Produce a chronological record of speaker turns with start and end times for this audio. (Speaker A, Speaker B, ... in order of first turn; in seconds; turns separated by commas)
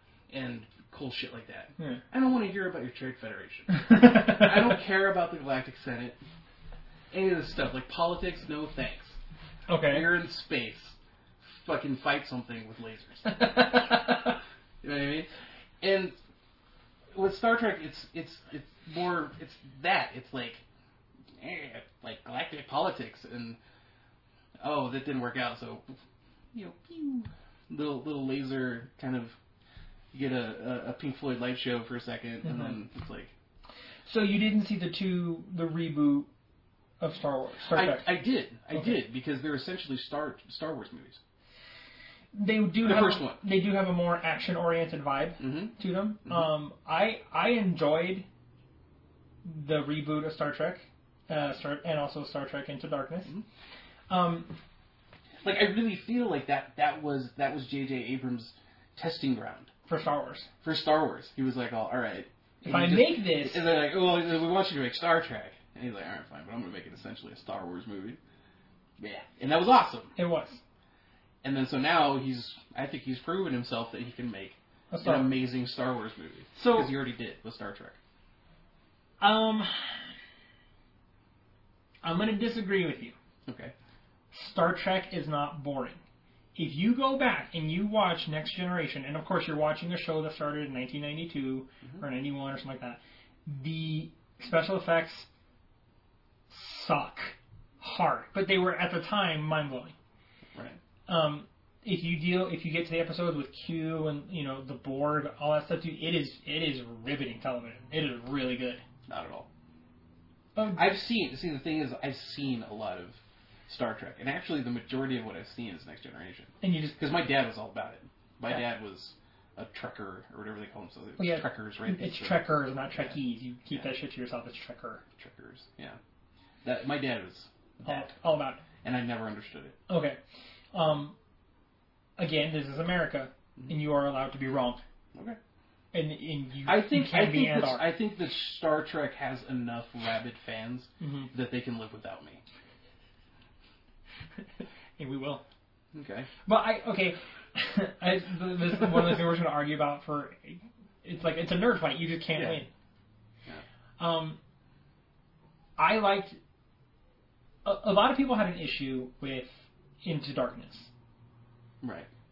Speaker A: 0.3-6.2, Speaker B: 1.8-2.0, Speaker B: 3.7-4.7, Speaker A: 7.1-9.2, Speaker B: 9.7-10.1, Speaker A: 9.9-14.2, Speaker B: 13.3-14.3, Speaker A: 14.8-15.3, Speaker A: 15.8-16.1, Speaker A: 17.1-20.6, Speaker A: 21.4-23.6, Speaker A: 24.6-25.9, Speaker A: 26.5-29.4, Speaker A: 30.1-33.3, Speaker B: 32.4-32.8, Speaker B: 34.1-36.3, Speaker B: 37.0-38.1, Speaker A: 37.7-41.2, Speaker B: 38.7-39.0, Speaker B: 42.3-48.3, Speaker A: 42.8-43.4, Speaker A: 45.4-46.5, Speaker B: 49.4-53.3, Speaker B: 54.1-54.5, Speaker A: 55.4-59.7, Speaker B: 59.9-60.5, Speaker A: 60.6-68.2, Speaker B: 62.6-63.6, Speaker A: 69.0-70.2, Speaker B: 70.2-70.6, Speaker A: 71.4-78.0, Speaker B: 74.9-75.4, Speaker B: 76.5-77.0, Speaker B: 79.2-80.0, Speaker B: 82.0-83.2, Speaker A: 83.5-83.7, Speaker B: 84.3-86.0, Speaker B: 86.6-95.3, Speaker B: 96.5-100.0, Speaker A: 100.5-100.8, Speaker B: 101.1-108.8, Speaker A: 109.1-109.5, Speaker B: 110.6-110.9, Speaker A: 110.7-113.2, Speaker A: 113.7-123.2, Speaker B: 116.6-117.0, Speaker B: 121.2-125.0, Speaker A: 125.2-126.0, Speaker A: 126.6-128.1, Speaker B: 127.8-128.6, Speaker A: 128.8-129.8, Speaker B: 129.9-130.2, Speaker B: 130.7-131.2, Speaker B: 132.2-134.8, Speaker A: 135.1-135.4, Speaker B: 135.9-137.9, Speaker A: 136.7-142.4, Speaker B: 141.0-141.3, Speaker B: 145.0-145.4, Speaker A: 145.9-146.3, Speaker B: 146.4-152.7, Speaker A: 152.3-152.6, Speaker B: 154.0-154.4, Speaker B: 155.8-156.4, Speaker B: 157.7-160.9, Speaker A: 161.8-162.1